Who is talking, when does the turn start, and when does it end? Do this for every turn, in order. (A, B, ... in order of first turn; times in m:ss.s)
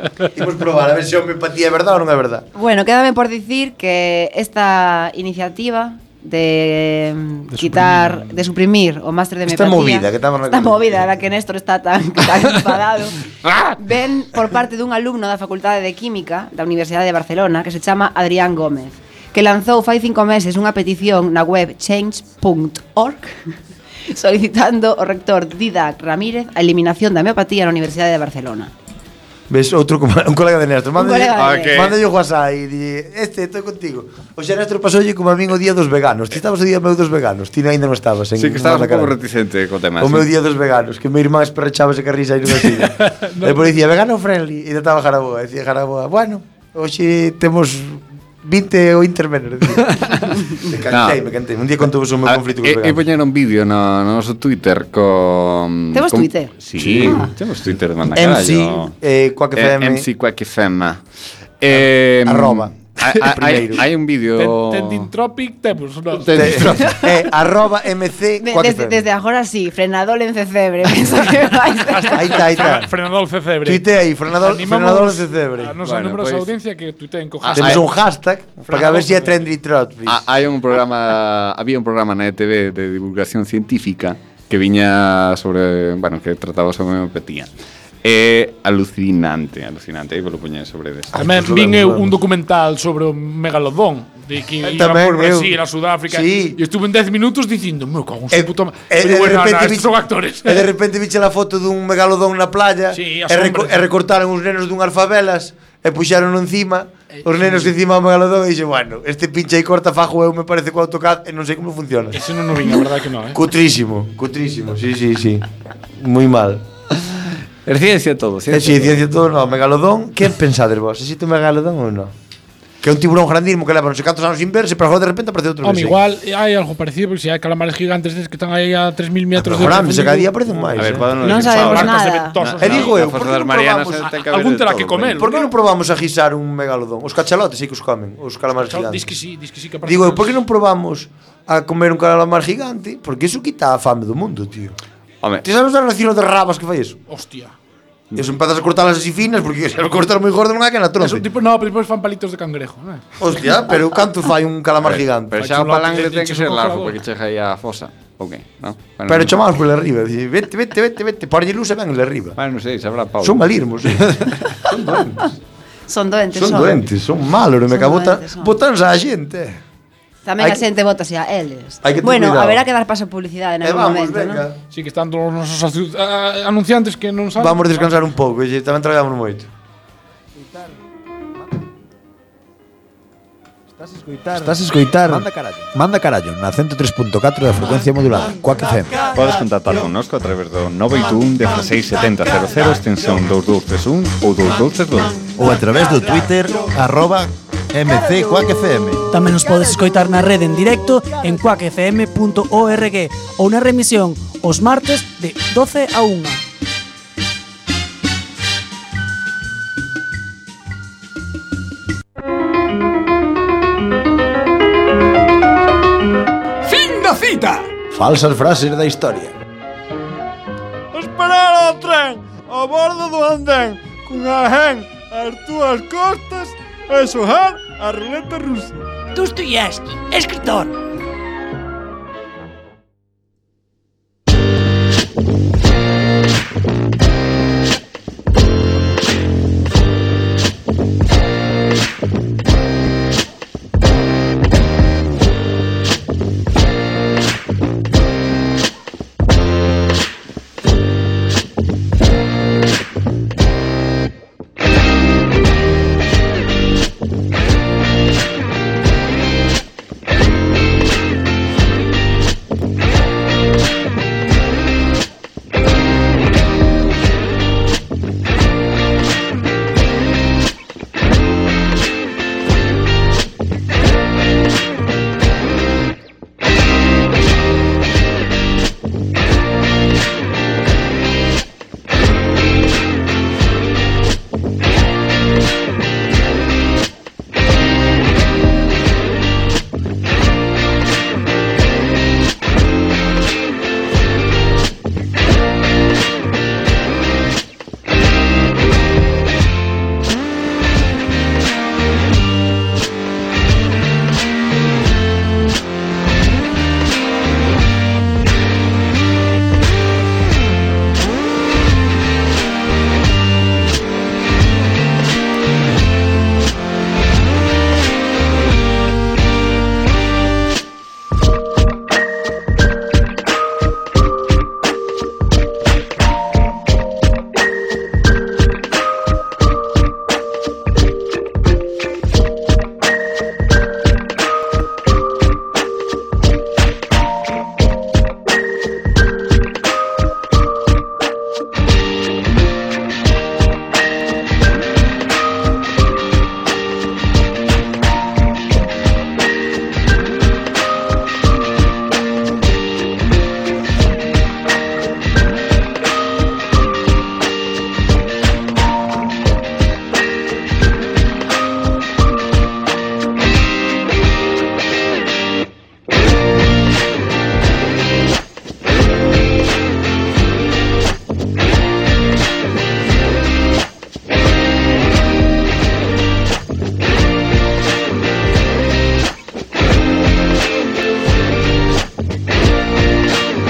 0:00.3-0:02.4 A
0:02.5-0:13.2 B
0:07.5-0:08.4 C
0:09.4-0:11.1 A
0:13.8-0:23.5 B
0:24.1-0:28.7 B
0:29.5-0:39.1 A
0:31.0-0:31.9 B
0:31.4-0:32.0 D
0:38.4-0:40.3 D
0:40.0-0:53.0 A
0:43.1-0:43.7 C
0:49.9-0:51.2 D
0:52.2-0:58.9 D
0:55.9-0:56.5 B
0:56.8-0:57.3 A
0:58.1-1:00.1 A
0:59.5-1:01.0 D
1:01.6-1:05.1 D
1:01.7-1:03.8 A
1:04.4-1:06.7 C
1:06.1-1:06.9 D
1:06.3-1:09.0 A
1:08.4-1:12.3 B
1:11.9-1:17.9 C
1:12.1-1:12.9 A
1:13.6-1:15.7 A
1:15.8-1:16.5 D
1:17.4-1:17.8 D
1:17.5-1:20.2 A
1:18.7-1:19.3 C
1:20.0-1:27.5 D
1:28.0-1:31.2 D
1:31.1-1:32.2 A
1:31.1-1:40.7 C
1:34.6-1:36.6 A
1:38.3-1:52.2 A
1:42.9-1:43.8 C
1:47.3-1:47.7 C
1:52.1-1:53.4 C
1:53.3-1:56.6 A
1:57.2-1:59.0 D
1:58.5-2:02.1 A
2:02.8-2:06.0 A
2:05.6-2:13.1 C
2:09.4-2:11.6 A
2:10.8-2:15.3 D
2:11.2-2:12.4 B
2:12.6-2:14.2 A
2:14.0-2:15.5 C
2:15.1-2:19.1 A
2:18.7-2:20.4 C
2:19.8-2:24.8 A
2:25.4-2:27.0 A
2:27.1-2:27.5 C
2:28.1-2:31.2 A
2:31.0-2:33.0 C
2:33.2-2:35.5 A
2:34.8-2:39.3 D
2:35.4-2:37.0 C
2:39.1-2:42.4 A
2:42.4-2:44.5 D
2:43.2-2:45.4 A
2:45.9-2:46.9 B
2:46.3-2:49.6 A
2:47.7-2:48.6 B
2:50.2-2:54.4 B
2:51.8-2:52.6 A
2:53.6-2:54.6 A
2:54.7-2:58.0 C
2:57.4-2:59.5 A
3:03.8-3:04.5 E
3:04.3-3:05.3 A
3:05.1-3:08.9 E
3:09.1-3:15.2 D
3:15.4-3:19.1 E
3:19.1-3:26.4 F
3:36.6-3:37.7 G
3:37.9-3:39.4 A
3:40.9-3:43.6 G
3:44.2-3:46.2 G
3:46.9-3:48.4 G
3:49.2-3:50.6 F
3:49.2-3:50.3 G